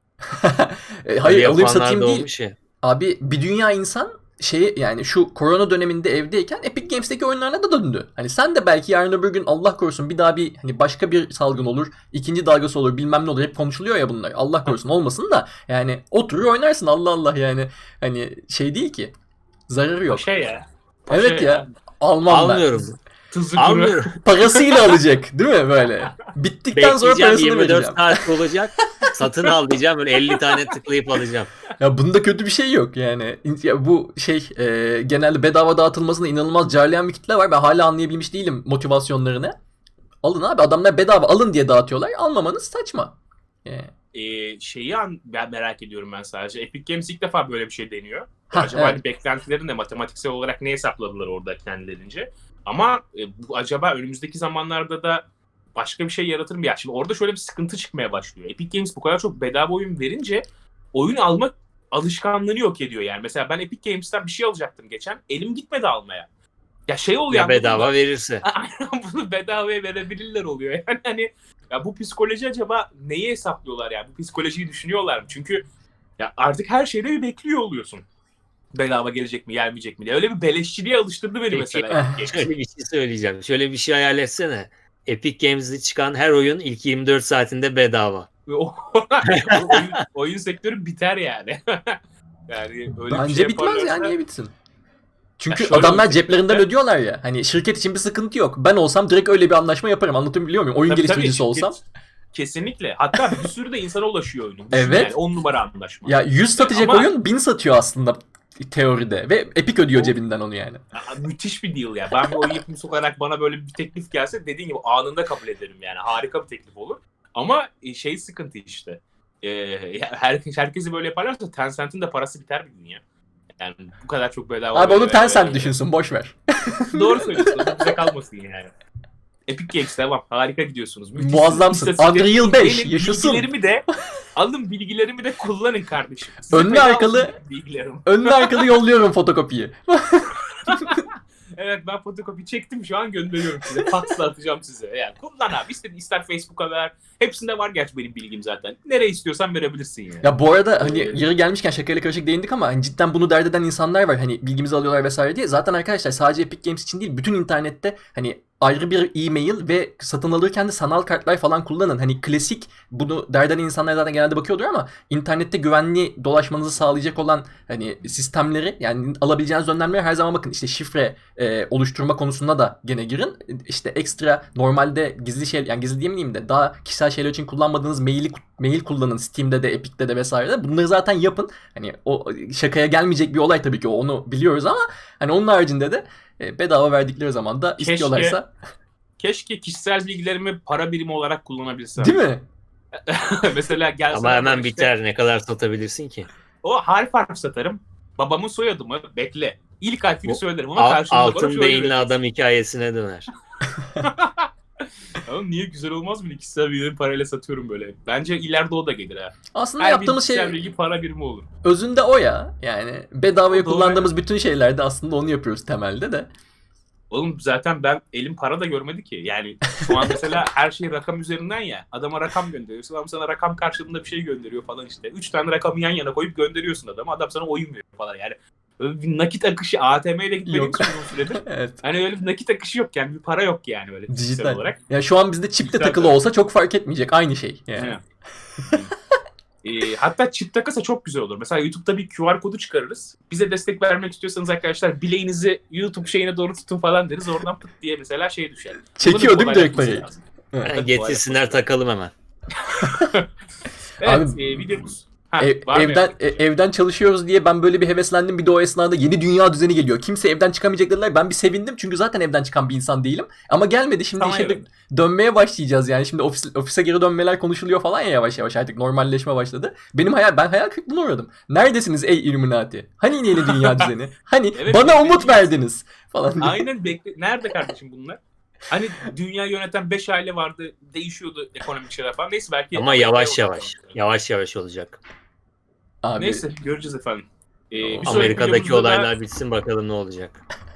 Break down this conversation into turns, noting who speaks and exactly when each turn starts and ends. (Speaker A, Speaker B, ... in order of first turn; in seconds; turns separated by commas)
Speaker A: 0.3-2.3, Speaker B: 1.2-2.5, Speaker A: 2.8-19.1, Speaker A: 19.7-20.3, Speaker C: 20.1-21.7, Speaker A: 21.1-22.8, Speaker B: 22.3-23.0, Speaker C: 23.3-24.9, Speaker B: 23.6-24.1, Speaker A: 24.2-28.2, Speaker B: 26.7-31.5, Speaker A: 31.8-39.5, Speaker A: 40.2-43.9, Speaker C: 44.1-55.2, Speaker A: 48.5-49.0, Speaker C: 55.8-66.3, Speaker C: 66.9-75.6, Speaker B: 67.3-68.4, Speaker C: 76.2-78.0, Speaker C: 78.7-82.5, Speaker B: 81.5-88.3, Speaker A: 81.9-82.2, Speaker C: 88.5-92.0, Speaker B: 89.3-89.7, Speaker C: 92.5-94.1, Speaker A: 93.1-94.5, Speaker A: 95.4-101.8, Speaker C: 95.5-96.6, Speaker C: 100.8-101.8, Speaker C: 102.3-107.1, Speaker A: 103.1-103.4, Speaker A: 104.7-105.2, Speaker A: 106.0-110.8, Speaker C: 110.9-123.0, Speaker A: 112.3-112.6, Speaker C: 123.6-125.7, Speaker A: 124.7-127.9, Speaker C: 126.9-128.7, Speaker C: 129.5-138.6, Speaker A: 131.2-133.5, Speaker A: 136.5-137.3, Speaker A: 138.0-141.0, Speaker C: 140.7-151.2, Speaker A: 150.2-188.5, Speaker C: 187.8-188.4, Speaker C: 189.2-192.2, Speaker A: 192.0-192.4, Speaker C: 193.1-194.9, Speaker B: 194.1-196.3, Speaker C: 196.6-202.1, Speaker B: 200.2-203.3, Speaker C: 204.0-204.5, Speaker C: 205.2-211.5, Speaker A: 209.5-210.7, Speaker A: 211.6-216.3, Speaker C: 213.5-214.1, Speaker C: 217.1-234.8, Speaker A: 230.4-231.8, Speaker A: 234.1-237.9, Speaker C: 235.6-236.2, Speaker C: 238.7-238.9, Speaker C: 239.6-251.6, Speaker A: 249.0-250.8, Speaker B: 250.6-252.1, Speaker C: 252.5-253.3, Speaker C: 254.0-256.4, Speaker A: 254.0-254.9, Speaker A: 255.4-276.6, Speaker C: 264.2-264.6, Speaker C: 273.4-273.8, Speaker C: 274.5-275.5, Speaker C: 276.4-283.9, Speaker B: 282.7-285.0, Speaker A: 286.0-286.4, Speaker C: 286.2-289.1, Speaker A: 287.8-288.4, Speaker B: 288.0-290.4